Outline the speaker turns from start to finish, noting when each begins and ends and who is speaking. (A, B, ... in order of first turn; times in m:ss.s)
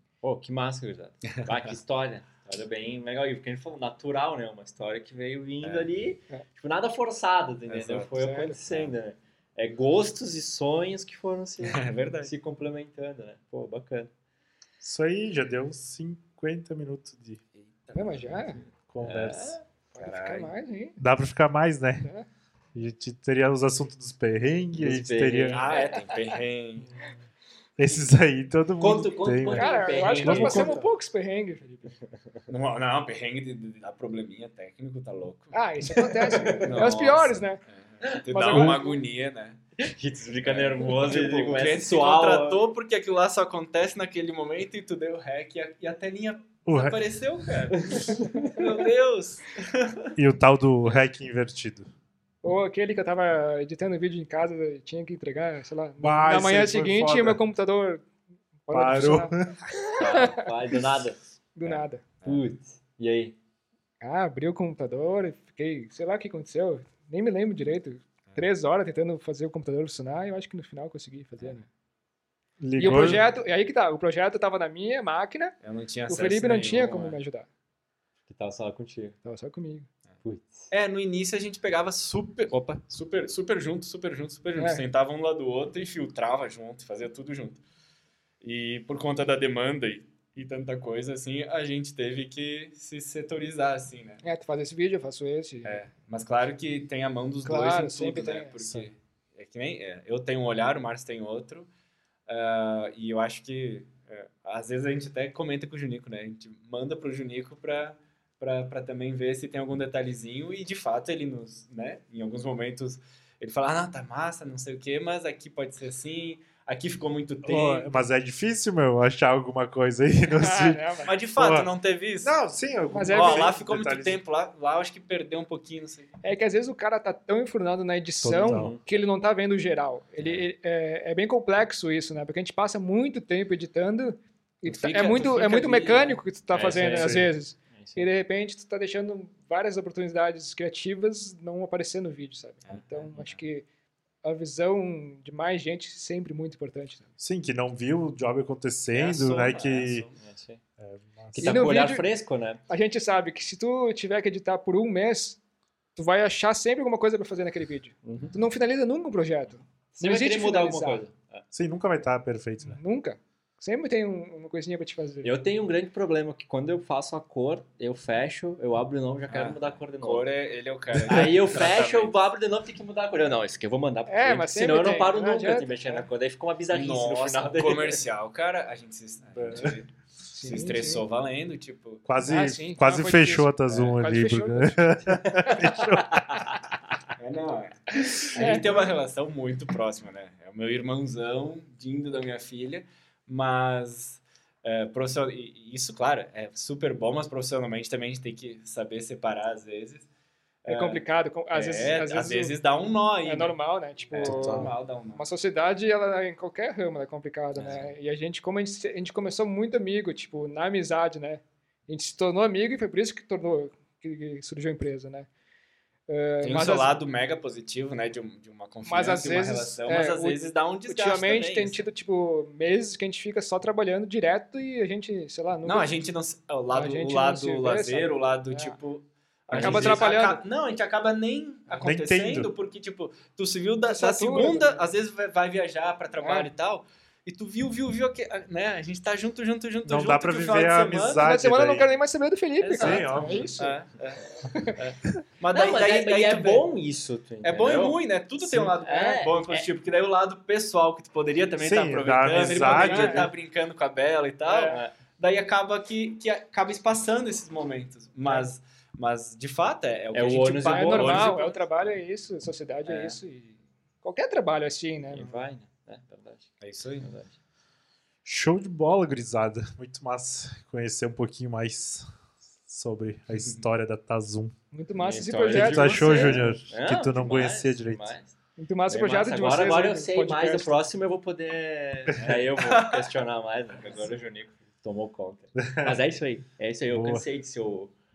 0:00.2-0:14.1 A
0:01.4-0:01.7 B
0:05.6-0:05.9 B
0:07.7-0:08.9 B
0:11.6-0:12.3 B
0:14.8-0:17.4 C
0:17.6-0:18.6 B
0:17.9-0:18.6 D
0:18.9-0:19.6 C
0:19.0-0:19.6 A
0:19.9-0:21.0 D
0:20.0-0:20.5 B
0:21.0-0:22.1 C
0:22.7-0:25.6 C
0:24.7-0:26.1 A
0:25.5-0:26.9 B
0:27.8-0:30.8 C
0:28.8-0:30.9 A
0:29.5-0:31.9 D
0:32.5-0:35.6 B
0:35.5-0:37.6 D
0:36.2-0:36.8 A
0:36.6-0:39.6 B
0:38.3-0:39.0 D
0:38.5-0:38.8 C
0:39.8-0:42.6 A
0:40.4-0:50.1 B
0:46.6-0:47.0 C
0:47.7-0:48.8 A
0:50.2-0:51.9 C
0:52.4-0:58.0 D
0:56.0-0:57.4 C
0:58.6-0:59.4 D
0:58.7-0:59.6 C
0:59.9-1:01.4 A
1:00.0-1:00.4 B
1:00.0-1:00.5 D
1:01.6-1:02.0 D
1:01.6-1:02.4 B
1:02.2-1:03.4 A
1:04.0-1:11.7 D
1:12.6-1:13.2 C
1:12.8-1:15.5 D
1:12.8-1:13.1 B
1:15.6-1:17.2 B
1:16.1-1:17.5 D
1:18.3-1:19.2 A
1:19.2-1:19.9 D
1:20.2-1:20.7 A
1:20.7-1:27.6 B
1:24.6-1:24.8 D
1:28.4-1:34.2 B
1:34.2-1:35.8 D
1:35.6-1:41.7 B
1:37.4-1:38.5 D
1:42.3-1:57.9 B
1:57.4-2:00.8 C
2:00.3-2:01.1 D
2:01.0-2:02.4 B
2:01.4-2:01.7 C
2:02.2-2:04.2 C
2:02.9-2:03.5 D
2:03.1-2:06.1 B
2:06.2-2:23.6 D
2:08.2-2:08.7 C
2:08.5-2:08.8 A
2:10.2-2:10.4 A
2:14.7-2:17.2 B
2:16.7-2:17.0 A
2:16.9-2:17.3 C
2:17.7-2:18.1 A
2:22.6-2:23.4 B
2:24.2-2:27.1 D
2:27.2-2:30.0 C
2:28.9-2:30.2 B
2:30.2-2:30.6 A
2:30.8-2:31.6 C
2:31.3-2:32.6 A
2:31.4-2:32.1 D
2:32.7-2:35.4 D
2:36.0-2:41.0 D
2:38.0-2:38.4 A
2:39.9-2:41.4 A
2:41.5-2:42.8 C
2:42.6-2:45.3 D
2:45.2-2:50.3 A
2:49.3-2:52.1 B
2:50.9-2:58.0 A
2:54.1-2:56.1 D
2:56.7-3:02.0 B
2:59.3-2:59.8 C
3:00.3-3:01.0 D
3:02.0-3:06.5 C
3:02.2-3:04.9 D
3:05.4-3:06.8 A
3:07.2-3:20.1 B
3:08.2-3:08.9 D
3:20.6-3:25.2 B
3:20.7-3:22.5 D
3:23.2-3:35.3 D
3:24.2-3:24.7 C
3:36.1-3:36.9 D
3:36.4-3:41.8 B
3:38.8-3:45.9 D
3:45.6-4:01.3 B
3:46.7-3:48.8 D
3:49.5-3:50.0 C
3:49.5-3:50.4 D
3:51.8-3:52.5 C
3:53.8-3:54.8 D
3:56.2-3:56.5 D
3:59.8-4:01.9 C
4:01.2-4:03.8 D
4:02.6-4:03.5 A
4:02.7-4:03.5 C
4:03.6-4:04.2 B
4:04.5-4:04.8 D
4:04.8-4:06.6 B
4:05.5-4:09.6 A
4:07.4-4:21.6 B
4:11.6-4:13.3 C
4:12.6-4:13.2 A
4:12.7-4:13.3 D
4:14.4-4:14.8 D
4:14.7-4:14.9 A
4:20.1-4:21.4 A
4:20.6-4:25.4 D
4:22.8-4:23.2 A
4:25.1-4:27.3 A
4:26.6-4:27.1 B
4:28.2-4:32.1 C
4:32.7-4:34.5 C
4:34.7-4:36.3 D
4:35.0-4:38.3 A
4:35.5-4:38.1 C
4:38.6-4:40.7 D
4:38.9-4:47.9 A
4:42.2-4:43.1 B
4:45.6-4:46.0 C
4:46.9-4:47.2 C